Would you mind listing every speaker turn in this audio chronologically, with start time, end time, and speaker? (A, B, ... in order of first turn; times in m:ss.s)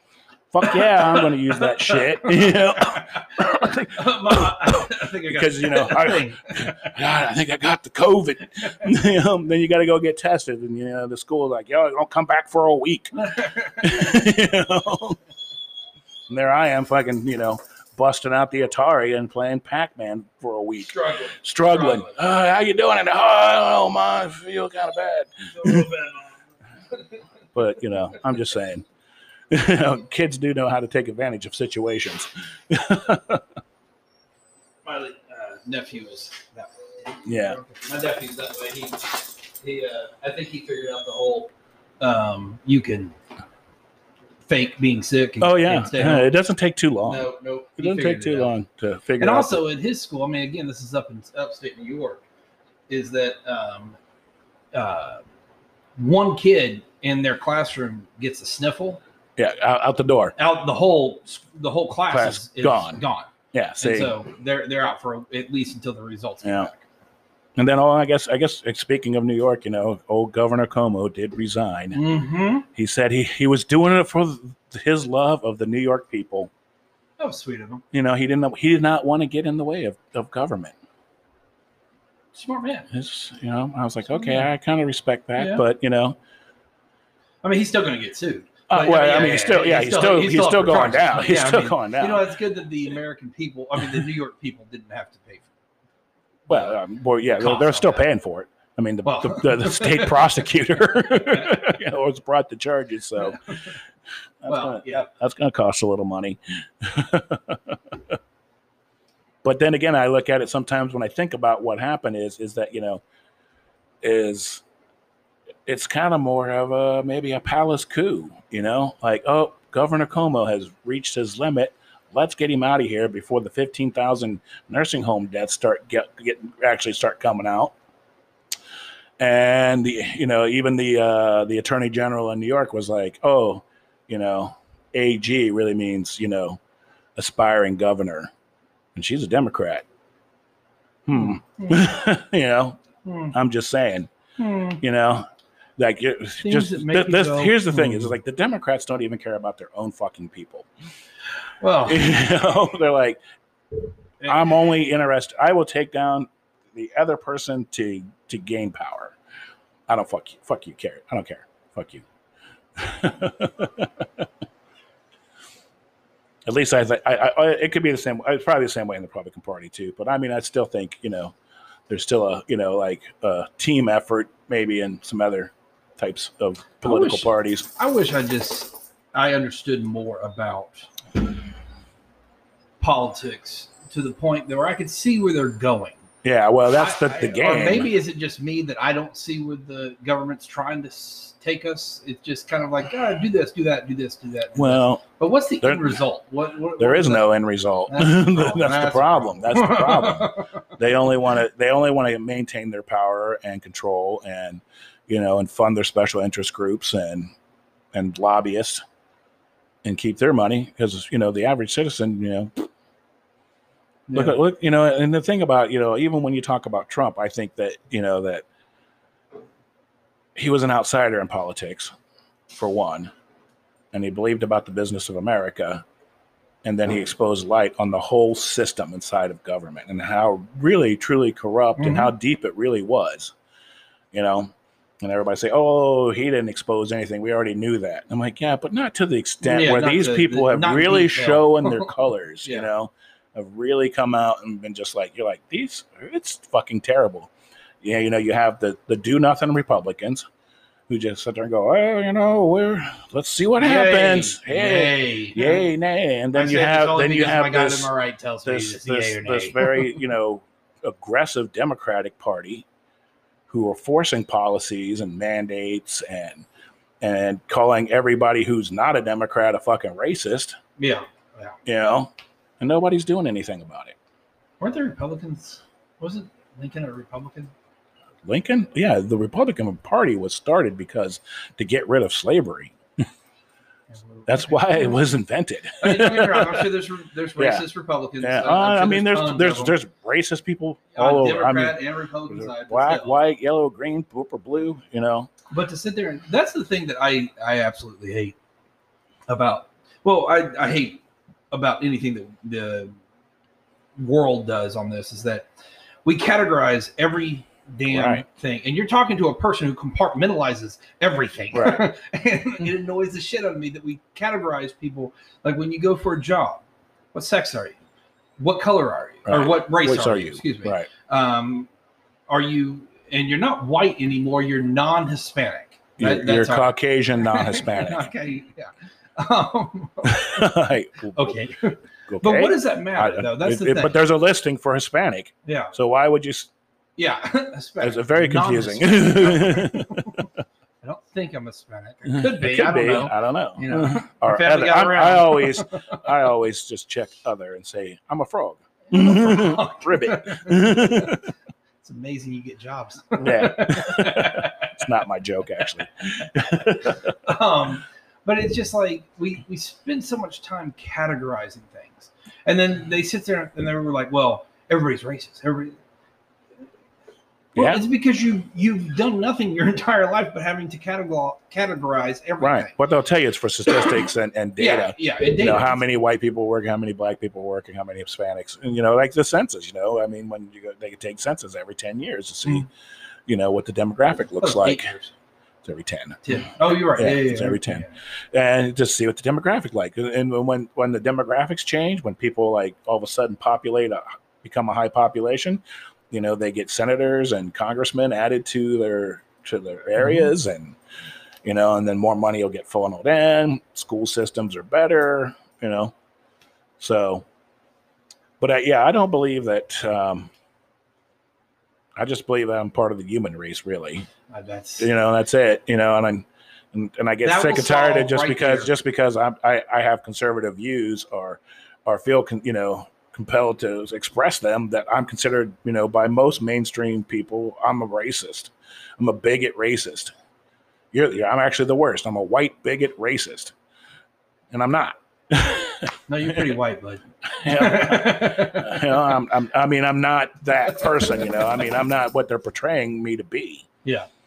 0:00.5-0:13.2 A
0:01.2-0:06.9 B
0:13.2-0:13.9 B
0:13.8-0:15.2 A
0:16.3-0:25.9 A
0:20.9-0:22.2 B
0:25.6-0:26.3 B
0:27.6-0:28.9 A
0:29.5-0:33.4 A
0:34.8-0:43.2 B
0:37.2-0:37.6 A
0:44.5-0:46.4 B
0:45.4-0:49.6 A
0:47.0-0:48.5 B
0:49.2-0:52.2 B
0:52.9-0:54.0 B
0:54.7-0:55.2 B
0:56.0-0:59.0 B
0:59.4-1:00.4 A
1:00.4-1:06.8 B
1:02.1-1:04.2 A
1:06.4-1:06.7 A
1:07.6-1:12.0 A
1:12.0-1:12.7 B
1:12.7-1:16.5 A
1:17.2-1:17.8 B
1:17.9-1:20.8 A
1:22.3-1:22.9 B
1:22.9-1:26.2 A
1:24.1-1:24.5 B
1:25.4-1:25.6 B
1:27.4-1:35.5 B
1:28.7-1:32.3 A
1:36.5-1:36.8 B
1:36.5-1:43.6 A
1:37.4-1:38.0 B
1:39.0-1:40.4 B
1:41.0-1:41.7 B
1:43.2-1:43.7 B
1:44.4-1:48.0 A
1:44.5-1:45.1 B
1:49.4-1:53.0 A
1:54.0-1:54.6 A
1:55.7-2:07.8 A
2:09.2-2:16.6 A
2:17.2-2:18.3 A
2:19.0-2:19.8 A
2:21.1-2:22.8 A
2:21.2-2:21.8 B
2:23.0-2:23.3 B
2:23.3-2:24.1 A
2:24.4-2:24.8 B
2:24.8-2:30.7 A
2:26.4-2:28.1 B
2:31.6-2:32.0 B
2:31.9-2:33.2 A
2:34.3-2:39.2 A
2:39.9-2:42.0 A
2:42.8-2:44.2 A
2:46.5-2:51.4 A
2:51.9-2:57.7 A
2:56.8-3:00.9 B
3:02.8-3:06.0 B
3:06.2-3:07.9 A
3:06.7-3:17.3 B
3:14.6-3:15.0 A
3:15.6-3:16.0 A
3:16.8-3:27.3 A
3:17.9-3:20.5 B
3:27.9-3:28.8 A
3:29.8-3:32.7 A
3:34.1-3:34.4 B
3:34.1-3:38.4 A
3:40.4-3:41.9 A
3:42.5-3:43.1 A
3:43.9-3:45.8 A
3:46.6-3:53.3 A
3:51.8-3:52.1 B
3:54.1-4:07.3 A
3:59.4-4:01.9 B
4:07.8-4:10.3 A
4:10.9-4:17.9 A
4:13.6-4:15.7 B
4:16.4-4:19.7 B
4:18.5-4:22.6 A
4:23.5-4:26.4 A
4:27.0-4:30.6 A
4:30.8-4:31.6 B
4:31.7-4:34.0 A
4:34.6-4:37.5 B
4:38.3-4:43.1 A
4:43.9-4:45.0 B
4:44.3-4:46.7 A
4:45.8-4:49.8 B
4:47.4-4:47.6 A
4:48.2-4:55.3 A
4:51.0-4:53.2 B
4:55.5-4:58.3 B
4:59.3-5:03.0 B
5:04.0-5:05.5 B
5:06.0-5:16.6 B
5:07.9-5:08.2 A
5:11.5-5:11.8 A
5:17.1-5:17.8 B
5:18.4-5:21.7 B
5:19.3-5:20.9 A
5:22.3-5:30.5 B
5:26.0-5:28.1 A
5:30.0-5:31.4 A
5:31.2-5:34.0 B
5:32.1-5:36.5 A
5:35.5-5:35.7 B
5:37.0-5:40.3 B
5:37.8-5:40.1 A
5:40.8-5:46.0 B
5:42.1-5:51.2 A
5:48.9-5:51.2 B
5:51.8-5:54.9 B
5:53.2-5:57.2 A
5:57.2-6:05.8 B
6:07.6-6:07.8 A
6:07.6-6:12.7 B
6:12.4-6:22.7 A
6:14.6-6:15.8 B
6:23.3-6:24.9 A
6:24.4-6:25.1 B
6:25.6-6:40.8 A
6:26.3-6:27.9 B
6:41.4-6:45.9 A
6:46.8-6:47.3 A
6:48.4-6:50.3 A
6:52.0-6:54.1 A
6:54.3-6:54.9 B
6:54.8-7:10.1 A
6:57.2-6:58.7 B
7:10.9-7:13.5 A
7:14.5-7:16.5 A
7:16.1-7:19.0 B
7:17.3-7:23.7 A
7:20.6-7:21.2 B